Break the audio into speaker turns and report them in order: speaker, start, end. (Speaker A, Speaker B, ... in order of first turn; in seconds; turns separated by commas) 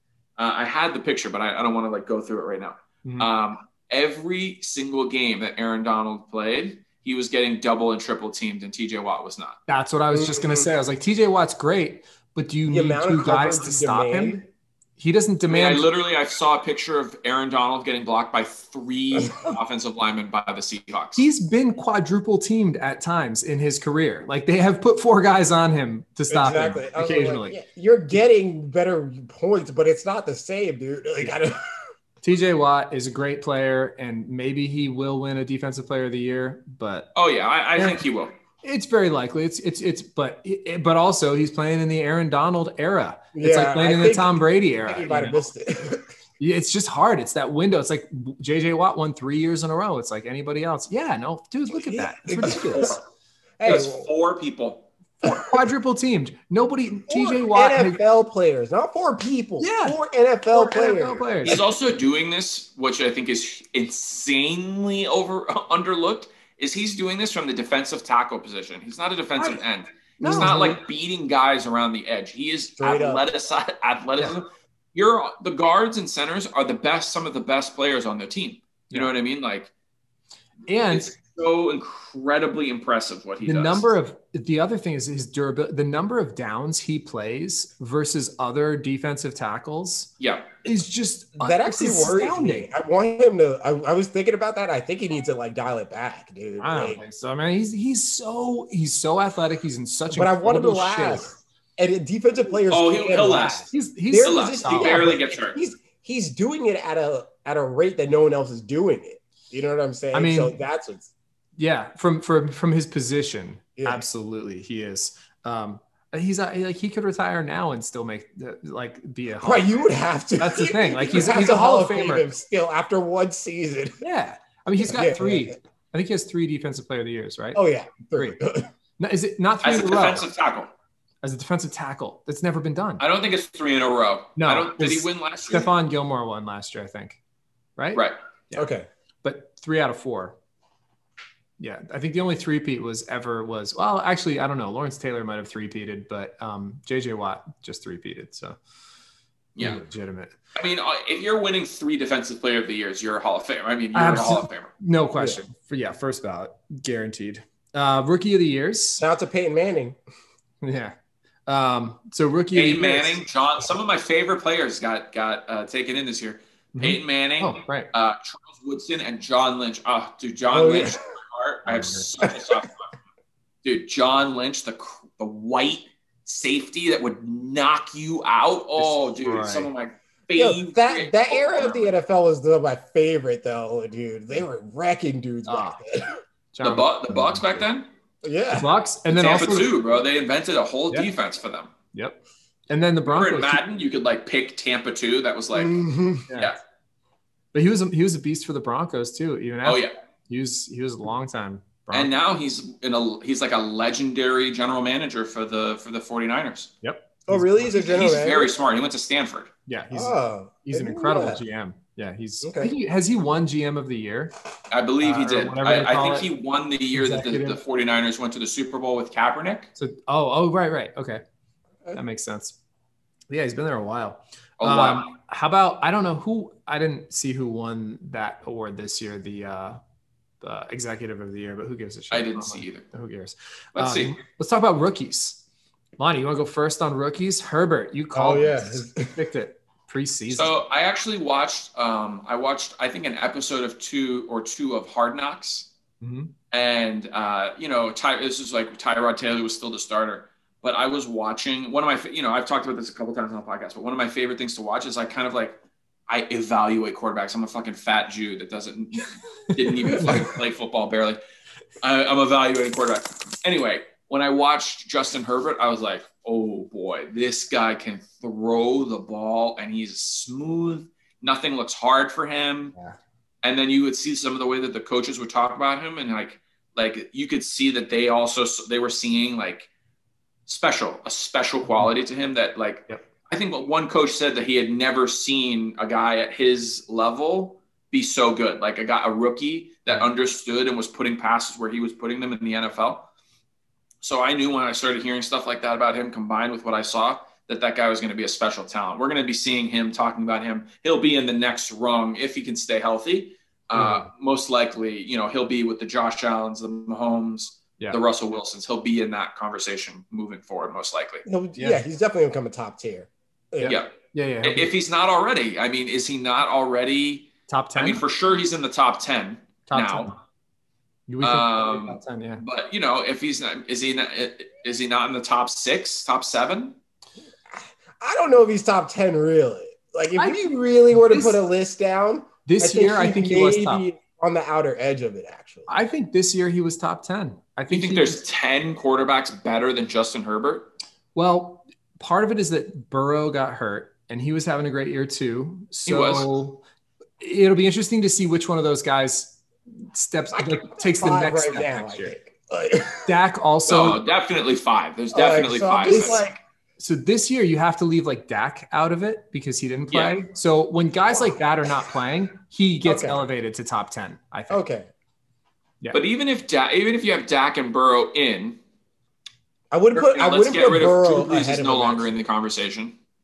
Speaker A: 0.4-9.6, Speaker B: 9.7-14.4, Speaker C: 10.1-10.7, Speaker C: 12.7-14.4, Speaker B: 15.0-15.9, Speaker A: 15.5-21.2, Speaker B: 21.2-27.6, Speaker C: 26.3-31.6, Speaker B: 32.2-37.1, Speaker A: 37.1-38.3, Speaker B: 38.6-45.4, Speaker C: 43.4-46.0, Speaker B: 46.4-53.0, Speaker C: 51.7-53.0, Speaker C: 53.6-54.1, Speaker A: 53.6-54.9, Speaker B: 55.2-58.0, Speaker C: 57.1-61.6, Speaker B: 59.6-60.0, Speaker B: 60.5-61.6, Speaker A: 61.5-79.7, Speaker C: 70.2-70.6, Speaker B: 70.2-70.8, Speaker C: 72.8-73.2, Speaker B: 80.7-81.1, Speaker A: 80.9-83.9, Speaker B: 83.4-90.1, Speaker A: 90.2-90.5, Speaker B: 90.6-92.7, Speaker C: 91.4-97.0, Speaker B: 96.6-101.3, Speaker C: 100.1-111.1, Speaker A: 102.7-103.7, Speaker B: 103.7-105.1, Speaker A: 104.2-105.6, Speaker B: 110.1-110.5, Speaker B: 111.6-119.8, Speaker C: 119.4-124.0, Speaker B: 120.4-122.2, Speaker B: 124.0-127.6, Speaker C: 124.8-125.5, Speaker C: 127.5-128.7, Speaker B: 129.0-130.3, Speaker A: 129.6-130.7, Speaker B: 131.2-133.0, Speaker A: 133.0-135.7, Speaker B: 134.4-137.2, Speaker B: 137.8-138.7, Speaker C: 138.5-138.9, Speaker B: 139.2-140.4, Speaker B: 141.6-148.6, Speaker A: 149.6-149.8, Speaker B: 149.6-150.3, Speaker A: 150.6-154.7, Speaker B: 153.9-159.0, Speaker C: 159.0-160.0, Speaker B: 160.6-160.9, Speaker B: 161.5-163.2, Speaker A: 162.5-172.9, Speaker B: 166.7-167.9, Speaker C: 170.5-171.0, Speaker B: 171.7-172.1, Speaker A: 173.6-181.9, Speaker B: 178.8-179.7, Speaker C: 180.3-186.2, Speaker B: 185.5-185.8, Speaker B: 186.5-187.6, Speaker A: 186.6-187.9, Speaker C: 188.2-188.7, Speaker B: 188.5-189.7, Speaker A: 189.1-191.7, Speaker B: 191.9-192.2, Speaker B: 192.7-193.6, Speaker A: 193.1-195.7, Speaker C: 195.5-196.3, Speaker B: 196.3-196.6, Speaker B: 197.5-202.1, Speaker A: 199.6-199.9, Speaker A: 201.9-206.7, Speaker B: 206.8-207.7, Speaker C: 207.3-208.5, Speaker A: 207.7-209.5, Speaker B: 209.7-214.3, Speaker C: 209.9-211.4, Speaker C: 212.4-212.7, Speaker A: 214.7-219.7, Speaker B: 215.0-216.3, Speaker B: 216.9-217.6, Speaker B: 219.8-221.2, Speaker B: 221.9-222.6, Speaker B: 223.3-229.8, Speaker A: 224.6-225.1, Speaker B: 230.4-235.4, Speaker A: 232.1-232.8, Speaker A: 233.8-234.2, Speaker B: 236.0-240.6, Speaker C: 238.2-239.1, Speaker A: 240.3-245.7, Speaker B: 246.0-246.3, Speaker A: 246.5-261.2, Speaker A: 261.8-272.8, Speaker A: 273.4-279.7, Speaker A: 280.5-293.1, Speaker A: 294.0-311.2, Speaker B: 303.8-304.0, Speaker C: 311.3-313.8, Speaker B: 311.6-311.8, Speaker B: 313.6-314.7, Speaker A: 313.6-320.1, Speaker B: 317.5-318.0, Speaker B: 319.7-320.2, Speaker B: 321.1-322.4, Speaker A: 321.2-326.8, Speaker C: 327.5-335.7, Speaker B: 330.2-331.4, Speaker B: 332.5-333.9, Speaker B: 335.7-338.2, Speaker A: 337.7-340.7, Speaker B: 341.1-346.6, Speaker A: 345.9-346.3, Speaker B: 347.2-349.4, Speaker B: 349.9-352.2, Speaker C: 350.4-353.1, Speaker B: 353.1-354.0, Speaker A: 353.7-356.3, Speaker C: 355.1-356.4, Speaker B: 356.8-364.6, Speaker A: 359.9-360.2, Speaker C: 362.9-363.3, Speaker C: 364.5-364.9, Speaker A: 365.9-368.6, Speaker C: 369.7-372.2, Speaker A: 369.9-373.0